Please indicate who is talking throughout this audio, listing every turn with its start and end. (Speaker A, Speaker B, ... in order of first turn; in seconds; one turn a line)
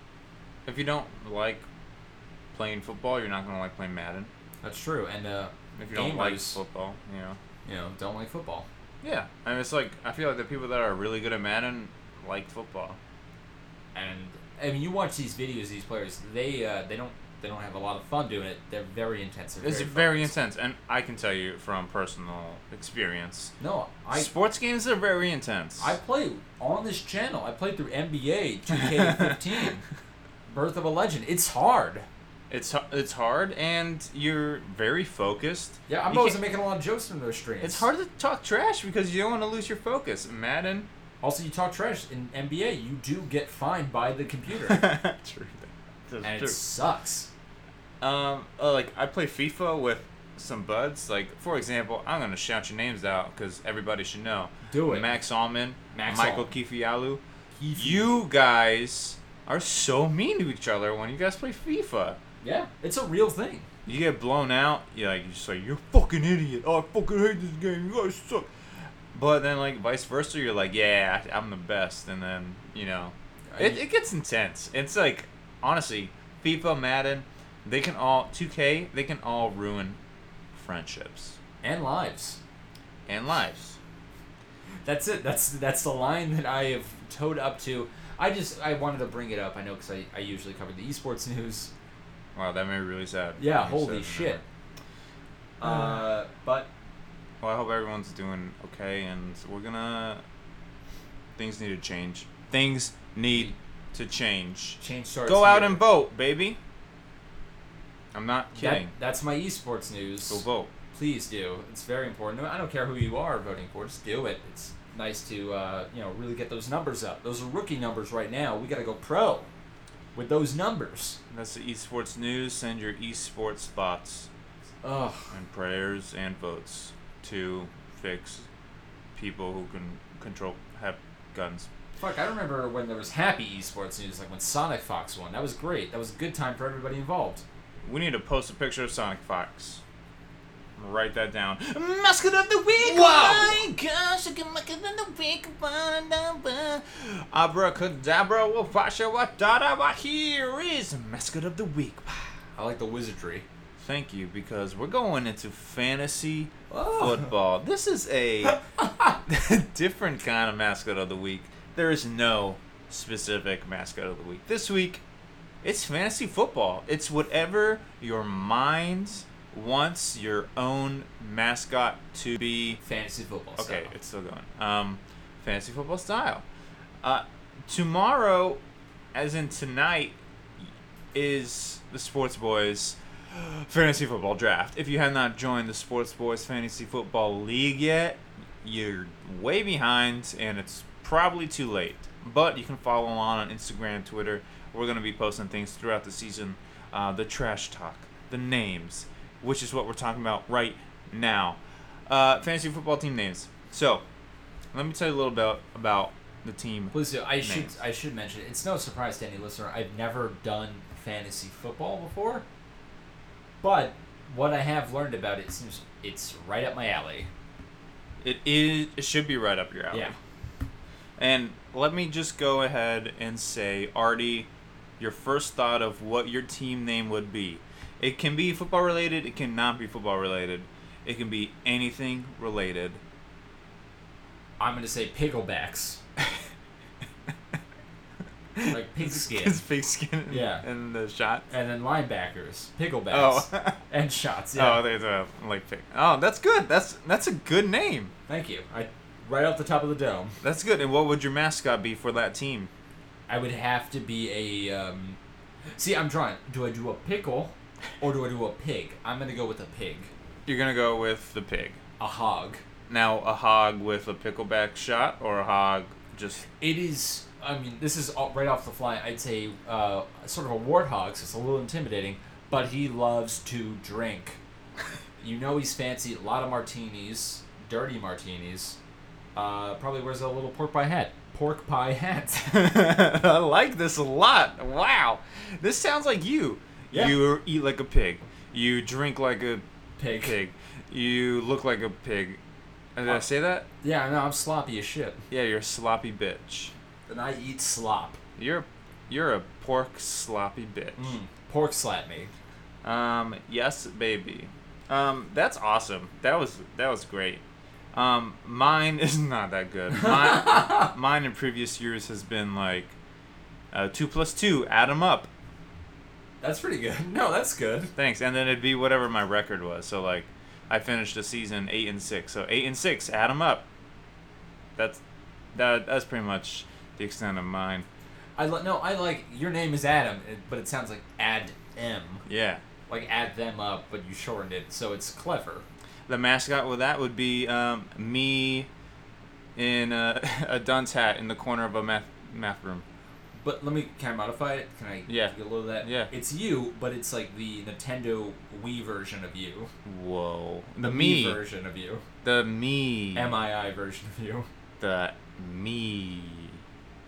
Speaker A: 0.7-1.6
Speaker A: 2.5-4.3
Speaker B: 4.6-6.6
Speaker A: 5.8-7.4
Speaker B: 7.6-8.7
Speaker A: 9.0-13.0
Speaker B: 13.9-20.3
Speaker A: 19.6-23.5
Speaker B: 23.6-24.3
Speaker A: 24.1-25.9
Speaker B: 25.8-29.8
Speaker A: 28.7-29.4
Speaker B: 30.5-32.1
Speaker A: 32.5-36.4
Speaker B: 35.9-37.9
Speaker A: 37.6-40.9
Speaker B: 41.2-44.9
Speaker A: 44.6-46.6
Speaker B: 46.2-47.3
Speaker A: 48.0-57.2
Speaker B: 54.7-55.1
Speaker B: 55.9-56.5
Speaker B: 57.6-58.1
Speaker A: 57.8-62.2
Speaker B: 62.4-63.7
Speaker A: 63.9-68.5
Speaker A: 69.1-80.0
Speaker B: 73.5-73.8
Speaker A: 80.5-81.4
Speaker B: 81.6-82.4
Speaker A: 83.1-83.8
Speaker B: 84.8-91.7
Speaker A: 92.3-94.4
Speaker B: 93.4-94.4
Speaker B: 95.6-96.7
Speaker A: 97.4-100.2
Speaker A: 101.4-106.6
Speaker B: 104.8-105.8
Speaker A: 108.1-108.9
Speaker B: 108.5-119.5
Speaker A: 110.3-110.7
Speaker B: 120.1-121.2
Speaker A: 121.3-124.3
Speaker B: 124.8-125.3
Speaker A: 125.3-128.5
Speaker A: 129.1-131.7
Speaker B: 132.0-137.4
Speaker A: 137.8-139.8
Speaker A: 140.8-152.3
Speaker B: 142.8-143.6
Speaker B: 152.5-153.4
Speaker A: 153.8-158.6
Speaker B: 156.7-157.3
Speaker A: 159.2-165.0
Speaker A: 165.6-172.8
Speaker B: 172.8-173.9
Speaker A: 173.6-176.4
Speaker A: 177.0-178.6
Speaker A: 179.1-180.2
Speaker A: 181.1-204.0
Speaker A: 204.7-207.7
Speaker B: 206.9-212.4
Speaker B: 213.6-217.3
Speaker A: 218.2-220.1
Speaker A: 221.2-233.0
Speaker B: 234.6-236.0
Speaker A: 238.6-241.5
Speaker B: 238.7-239.6
Speaker B: 240.3-240.6
Speaker B: 241.5-244.8
Speaker A: 243.1-243.8
Speaker A: 244.5-248.1
Speaker B: 248.3-250.4
Speaker A: 250.4-252.7
Speaker B: 253.3-255.2
Speaker B: 255.8-260.1
Speaker A: 260.4-261.8
Speaker B: 262.0-262.6
Speaker A: 262.9-266.4
Speaker B: 266.6-274.4
Speaker B: 275.2-278.8
Speaker B: 279.3-282.5
Speaker A: 282.4-289.6
Speaker B: 286.9-287.2
Speaker B: 290.0-290.4
Speaker A: 290.2-292.4
Speaker A: 292.9-293.7
Speaker B: 293.8-295.2
Speaker A: 295.3-296.7
Speaker B: 297.1-298.2
Speaker A: 298.4-301.1
Speaker B: 301.0-302.3
Speaker A: 302.8-307.4
Speaker A: 307.9-312.9
Speaker B: 309.9-310.9
Speaker A: 313.7-315.3
Speaker B: 316.4-317.9
Speaker A: 317.9-323.6
Speaker A: 324.8-325.0
Speaker A: 325.5-327.9
Speaker B: 328.4-332.2
Speaker A: 332.3-332.6
Speaker B: 332.9-335.6
Speaker A: 336.1-338.7
Speaker A: 339.6-342.8
Speaker B: 343.4-349.7
Speaker A: 345.1-346.1
Speaker A: 349.8-351.4
Speaker B: 350.8-352.0
Speaker A: 352.2-353.4
Speaker B: 353.1-354.5
Speaker A: 354.8-356.6